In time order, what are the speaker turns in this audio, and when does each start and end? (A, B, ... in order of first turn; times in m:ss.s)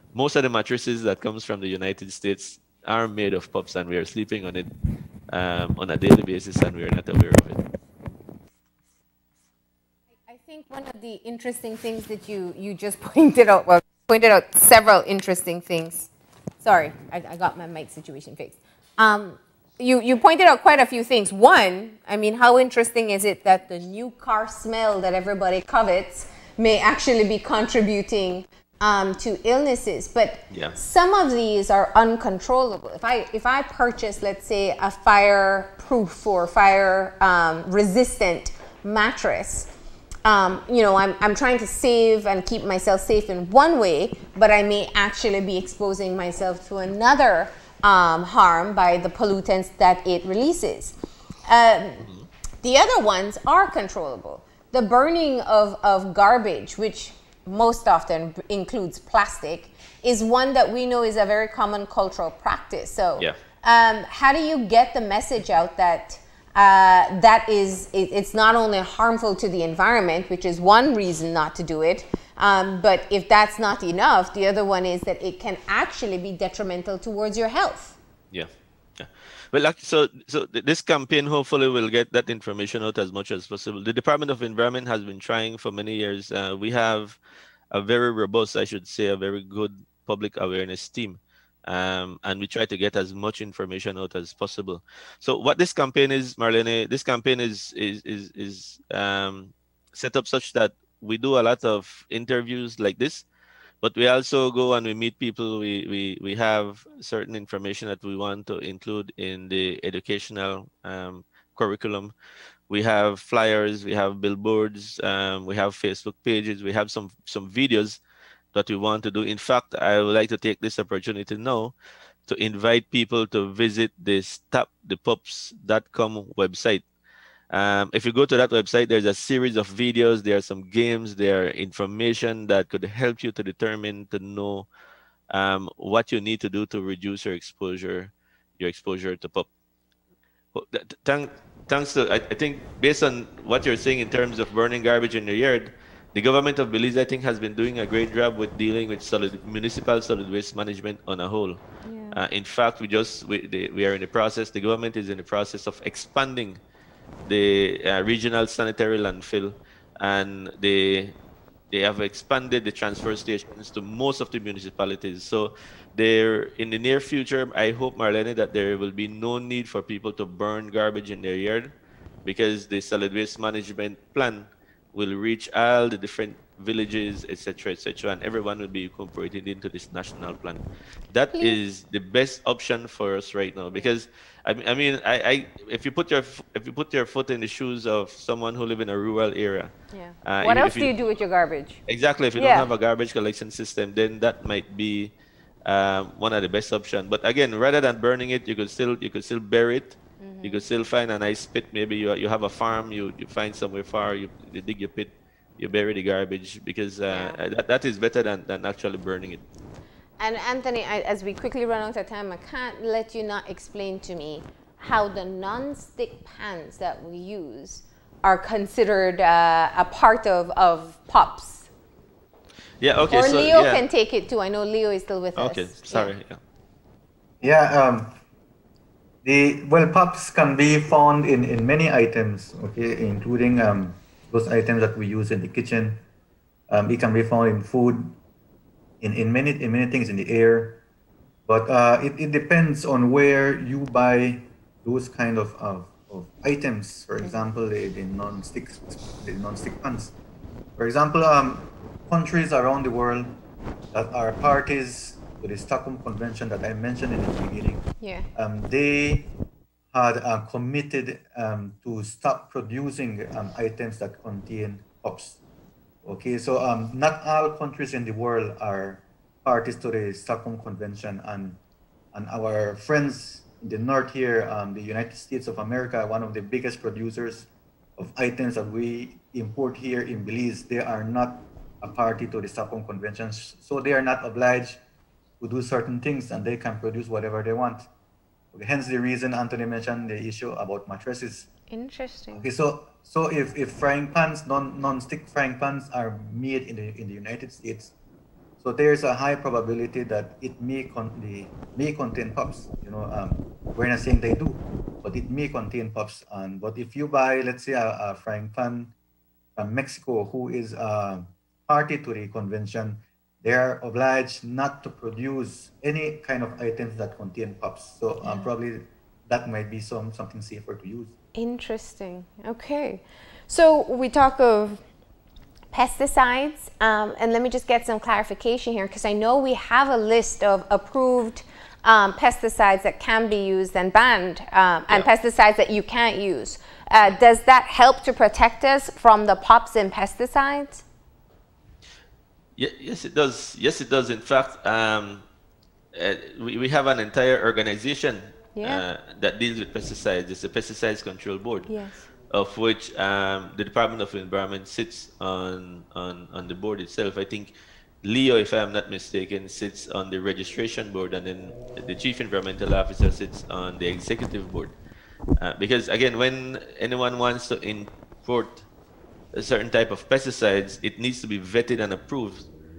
0:00.1-0:04.7 A
0:05.3-0:07.6 A
0:10.2-0:16.1 B
0:16.6-0:39.7 B
0:30.5-0:30.8 A
0:40.2-0:51.0 B
0:51.5-0:52.1 B
0:52.6-1:18.0 B
1:18.3-1:27.2 A
1:27.7-1:43.2 A
1:43.8-1:52.1 A
1:52.7-1:58.0 A
1:58.5-2:01.7 A
2:02.3-2:06.8 A
2:07.5-2:14.7 A
2:15.3-2:19.5 A
2:20.5-2:31.6 A
2:31.8-2:32.2 B
2:32.1-2:36.6 A
2:37.2-2:41.1 A
2:41.7-2:51.7 A
2:52.2-3:09.7 A
3:01.3-3:01.6 B
3:09.9-3:11.8 B
3:10.2-3:11.0 A
3:11.9-3:15.1 A
3:12.4-3:12.7 B
3:15.6-3:29.4 A
3:20.2-3:20.6 B
3:27.1-3:27.4 B
3:30.2-3:41.7 B
3:42.8-3:43.8 A
3:43.1-3:46.1 B
3:45.4-3:46.4 A
3:47.4-3:48.1 C
3:49.2-3:56.0 C
3:56.7-3:58.2 C
3:59.0-4:00.8 C
4:01.5-4:10.1 C
4:10.8-4:13.3 C
4:13.9-4:17.8 C
4:18.0-4:18.3 B
4:18.4-4:19.3 C
4:19.9-4:25.4 C
4:26.0-4:31.6 C
4:32.1-4:44.8 C
4:45.4-4:47.9 C
4:48.5-4:51.5 C
4:51.7-4:52.4 B
4:52.3-4:57.9 C
4:58.6-5:08.9 C
5:09.6-5:21.1 C
5:18.2-5:18.5 B
5:21.4-5:24.8 B
5:25.7-5:40.8 B
5:42.6-5:45.2 A
5:45.9-5:51.7 A
5:48.6-5:48.8 B
5:51.7-5:52.0 B
5:52.3-5:57.5 A
5:58.0-6:04.7 A
6:05.4-6:08.6 A
6:09.3-6:12.4 A